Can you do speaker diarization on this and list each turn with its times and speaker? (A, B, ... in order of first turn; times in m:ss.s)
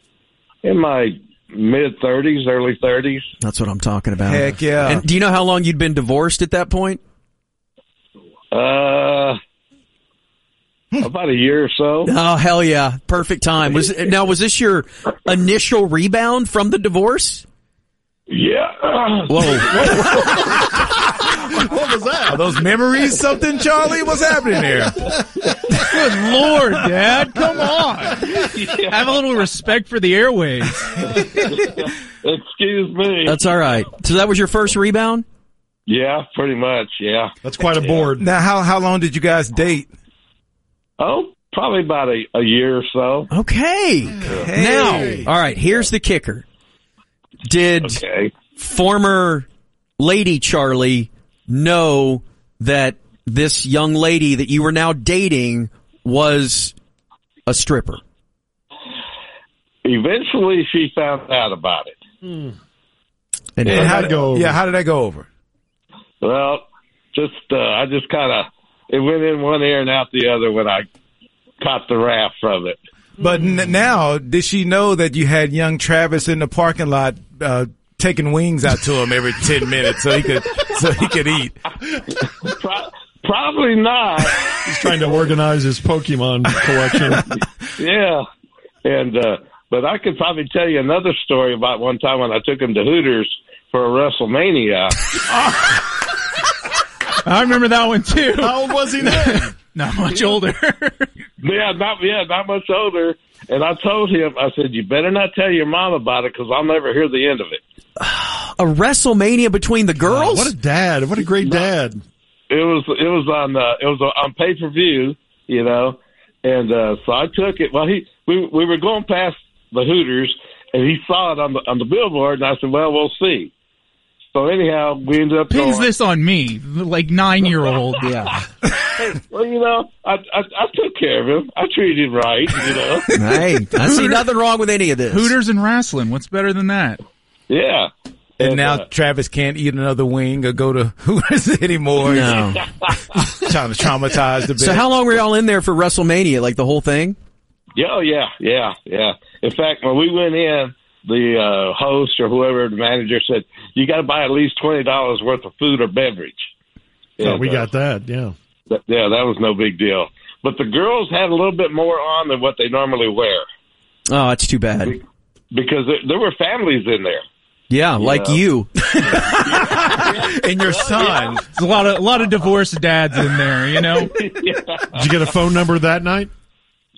0:00.6-0:03.2 A
0:03.4-0:07.0 B
0:04.2-0:05.0 C
0:08.5-0:09.4 A
0:11.0-0:12.1 A
0:12.0-0:17.4 B
0:18.3-0:20.3 A
0:19.3-0:20.4 B
0:20.0-0:22.6 D
0:22.3-0:25.2 C
0:25.0-0:26.1 D
0:25.7-0:31.1 E
0:28.4-0:29.2 A
0:31.5-0:33.4 A
0:33.2-0:35.2 B
0:35.9-0:38.0 A
0:37.4-0:38.3 D
0:38.2-0:39.9 C
0:41.0-0:43.3 A
0:43.3-0:46.4 B
0:44.0-0:45.3 D
0:44.2-0:45.3 C
0:47.5-0:49.5 B
0:47.8-0:48.3 A
0:50.0-0:56.8 B
0:57.5-0:58.0 B
0:59.8-1:02.0 A
1:02.2-1:02.6 D
1:03.6-1:04.1 B
1:03.7-1:04.0 A
1:03.7-1:04.6 D
1:03.7-1:05.3 C
1:06.2-1:10.9 A
1:11.6-1:12.8 A
1:13.2-1:21.6 C
1:22.2-1:24.6 A
1:24.6-1:27.3 D
1:27.8-1:28.3 A
1:28.8-1:35.0 A
1:35.3-1:35.8 C
1:37.2-1:41.1 E
1:38.3-1:39.5 D
1:41.4-1:47.6 A
1:48.0-1:50.5 B
1:50.0-1:52.0 D
1:51.4-1:51.7 A
1:52.5-2:03.5 A
2:04.3-2:05.9 A
2:05.5-2:08.1 E
2:08.0-2:08.4 B
2:09.0-2:13.1 A
2:13.1-2:15.3 B
2:13.8-2:14.2 E
2:15.1-2:17.0 E
2:17.5-2:18.8 A
2:18.4-2:24.9 C
2:22.0-2:22.6 B
2:22.6-2:23.1 A
2:24.6-2:27.2 B
2:27.8-2:36.5 A
2:37.2-2:37.7 A
2:37.2-2:38.3 D
2:38.7-2:43.4 A
2:44.1-2:45.0 B
2:44.8-2:47.2 A
2:47.7-2:49.4 B
2:48.0-2:48.4 A
2:49.0-2:51.5 C
2:49.1-2:51.4 A
2:51.5-2:54.2 E
2:54.0-2:55.3 A
2:54.9-2:56.3 D